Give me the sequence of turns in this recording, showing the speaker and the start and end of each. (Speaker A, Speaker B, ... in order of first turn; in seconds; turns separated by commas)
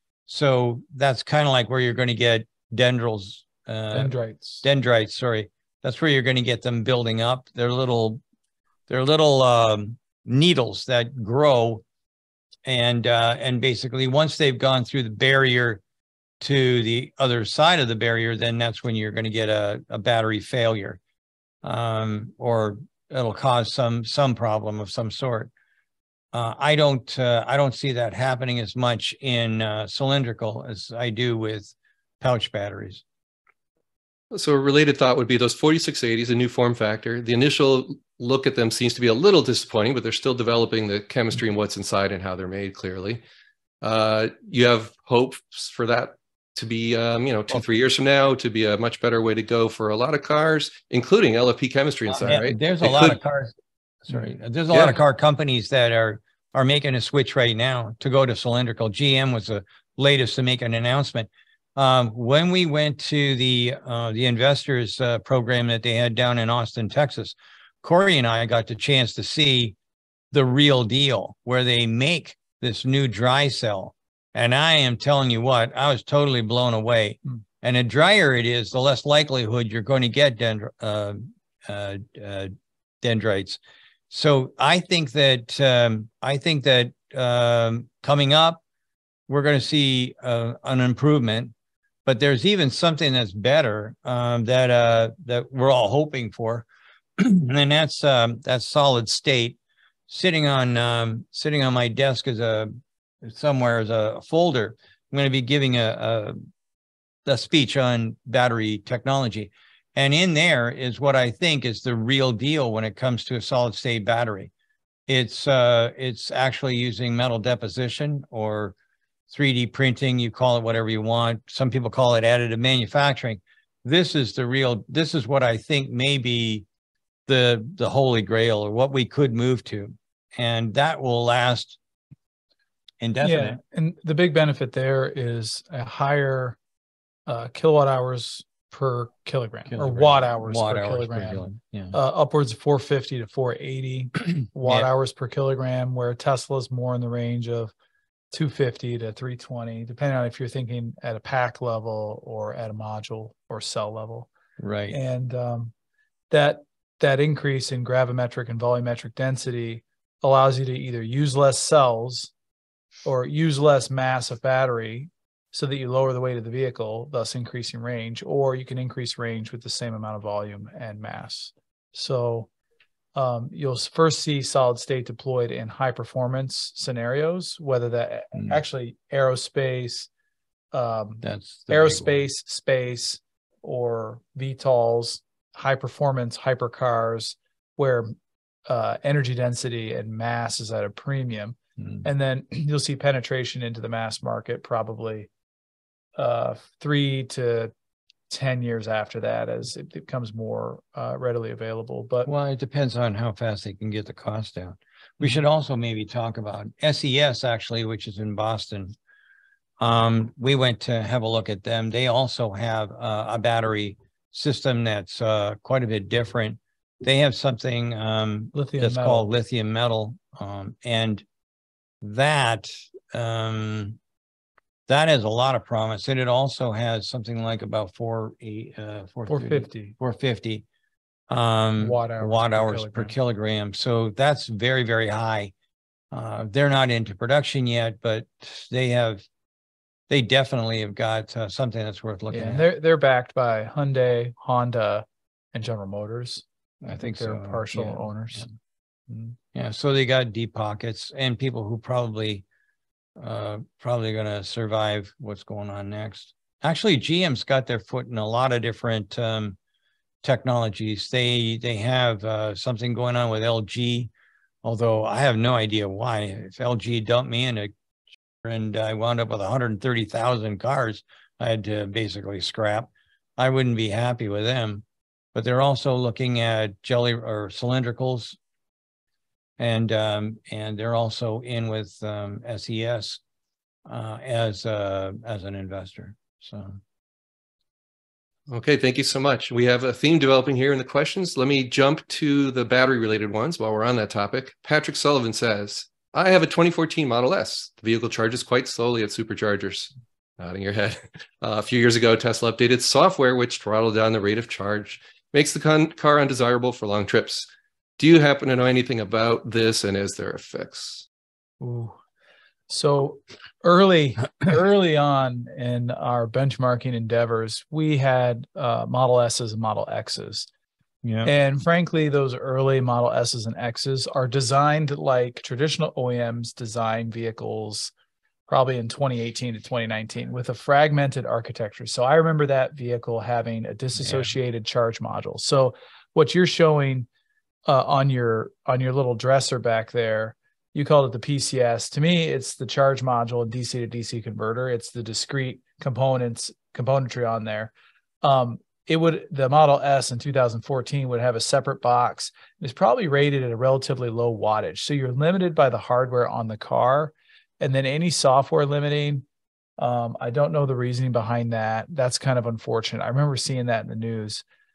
Speaker A: 0.3-8.2, Speaker B: 3.9-4.6, Speaker A: 8.9-11.8, Speaker A: 12.7-15.8, Speaker A: 16.4-21.0, Speaker A: 21.6-25.5, Speaker A: 26.3-33.0, Speaker C: 34.3-43.2, Speaker C: 43.8-53.2, Speaker A: 52.1-69.8, Speaker C: 54.7-55.0, Speaker A: 70.3-83.6, Speaker A: 84.1-88.6, Speaker A: 89.3-91.5, Speaker A: 92.0-96.7, Speaker A: 97.2-99.6, Speaker A: 100.1-106.4, Speaker A: 107.2-114.5, Speaker A: 115.1-118.8, Speaker A: 119.3-126.7, Speaker A: 127.3-131.8, Speaker A: 133.0-133.6, Speaker B: 133.2-136.6, Speaker B: 137.3-147.7, Speaker A: 139.7-142.0, Speaker A: 144.6-144.9, Speaker B: 148.3-154.3, Speaker A: 154.6-155.0, Speaker B: 154.9-155.7, Speaker B: 156.3-162.3, Speaker B: 163.1-172.5, Speaker B: 173.2-180.1, Speaker B: 180.7-188.1, Speaker A: 181.2-182.2, Speaker B: 188.7-195.3, Speaker B: 196.2-197.7, Speaker B: 198.3-202.3, Speaker A: 202.2-208.9, Speaker A: 209.8-221.2, Speaker B: 218.5-219.3, Speaker A: 222.0-224.0, Speaker A: 224.9-230.7, Speaker B: 229.3-230.0, Speaker A: 231.3-235.5, Speaker B: 231.8-233.1, Speaker A: 236.1-239.2, Speaker A: 240.1-242.7, Speaker B: 242.3-248.5, Speaker A: 246.8-248.5, Speaker B: 249.1-249.4, Speaker A: 249.5-252.4, Speaker A: 253.2-259.6, Speaker A: 260.2-264.1, Speaker A: 264.6-267.7, Speaker A: 268.4-278.4, Speaker A: 279.6-283.2, Speaker A: 283.9-286.8, Speaker C: 288.5-311.1, Speaker B: 311.6-312.0, Speaker B: 312.7-320.5, Speaker A: 321.0-321.3, Speaker B: 321.2-327.9, Speaker B: 328.5-337.1, Speaker A: 334.0-334.3, Speaker B: 337.7-359.2, Speaker B: 359.8-364.4